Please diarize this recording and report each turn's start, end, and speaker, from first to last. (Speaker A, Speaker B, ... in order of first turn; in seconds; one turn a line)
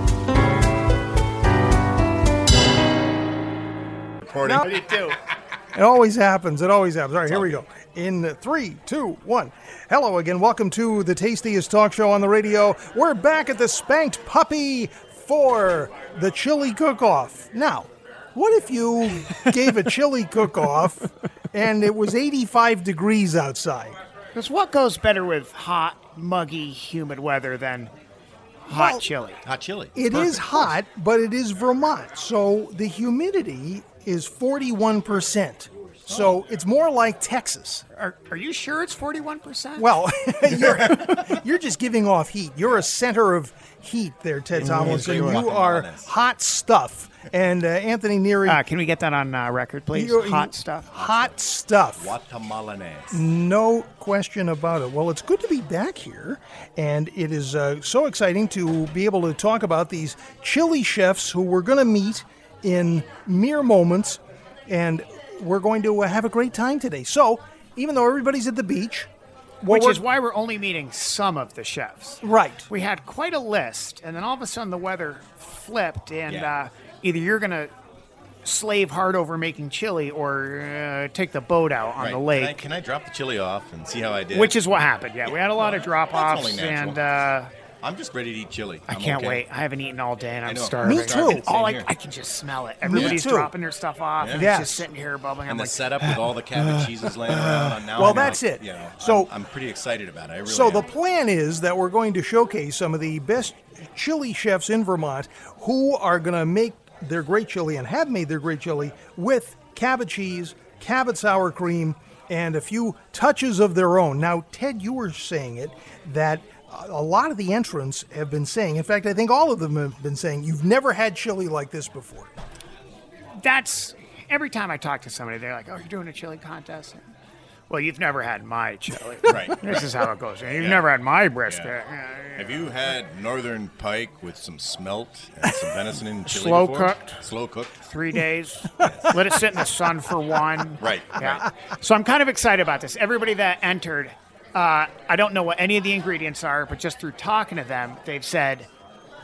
Speaker A: 4.2-4.8
Speaker B: 4.4-4.7
Speaker C: 4.6-5.2
Speaker B: 5.7-24.0
Speaker A: 7.3-7.6
Speaker C: 24.3-27.9
Speaker B: 28.6-29.0
Speaker C: 28.6-29.4
Speaker A: 29.4-30.7
Speaker B: 29.9-37.8
Speaker A: 36.1-36.4
Speaker C: 37.9-39.9
Speaker B: 39.8-48.6
Speaker A: 40.6-41.4
Speaker C: 44.6-45.5
Speaker A: 44.6-46.1
Speaker C: 48.4-51.3
Speaker B: 49.9-52.1
Speaker A: 52.0-53.2
Speaker B: 53.1-69.1
Speaker B: 69.6-70.0
Speaker C: 69.7-77.7
Speaker B: 72.2-72.7
Speaker A: 76.3-76.5
Speaker C: 78.4-82.7
Speaker A: 82.0-84.5
Speaker C: 84.3-87.5
Speaker A: 85.2-87.0
Speaker A: 87.8-89.4
Speaker C: 88.9-98.4
Speaker A: 90.5-91.9
Speaker B: 90.8-91.4
Speaker B: 92.8-93.5
Speaker A: 92.9-93.2
Speaker A: 94.2-94.5
Speaker B: 94.3-94.9
Speaker A: 95.5-100.8
Speaker B: 98.0-99.3
Speaker B: 100.5-122.3
Speaker C: 123.4-127.0
Speaker C: 127.7-132.7
Speaker A: 129.2-129.9
Speaker B: 129.3-129.5
Speaker A: 130.6-130.8
Speaker A: 131.5-131.7
Speaker A: 132.4-137.8
Speaker C: 136.2-137.2
Speaker C: 137.8-148.7
Speaker A: 138.8-139.1
Speaker A: 140.8-141.4